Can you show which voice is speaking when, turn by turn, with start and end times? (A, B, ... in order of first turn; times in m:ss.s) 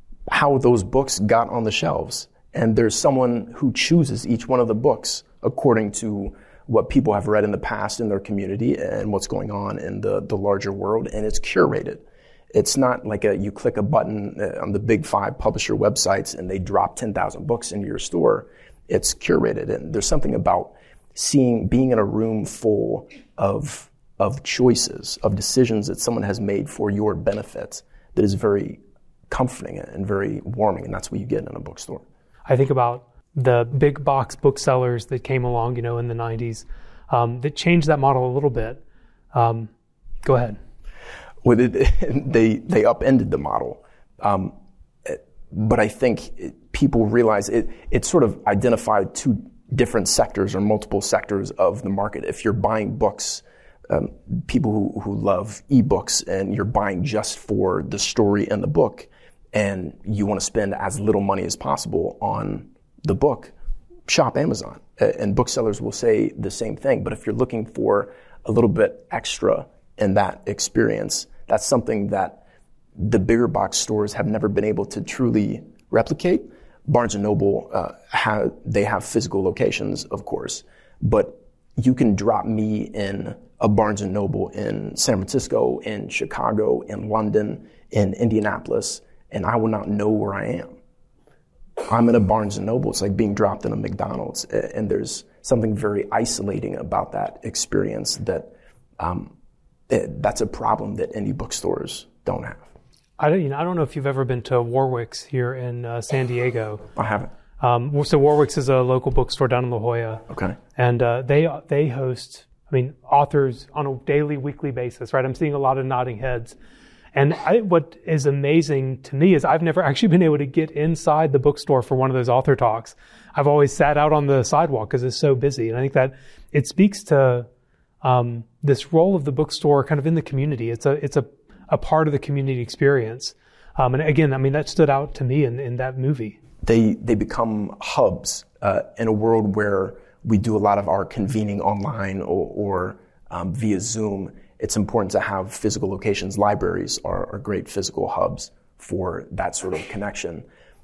0:00.3-0:32.0 A
0:32.5-0:38.8 B
0:39.3-0:39.7 B
0:40.2-0:40.6 B
0:41.4-1:03.5 A
1:04.1-1:12.4 A
1:13.0-1:30.8 A
1:31.8-1:39.3 A
1:39.9-1:42.7 A
1:43.2-1:46.9 B
1:47.0-1:47.3 A
1:47.6-1:50.2 B
1:50.3-1:50.6 A
1:50.8-1:56.6 B
1:57.1-2:07.5 B
2:08.0-2:16.4 B
2:16.6-2:30.5 A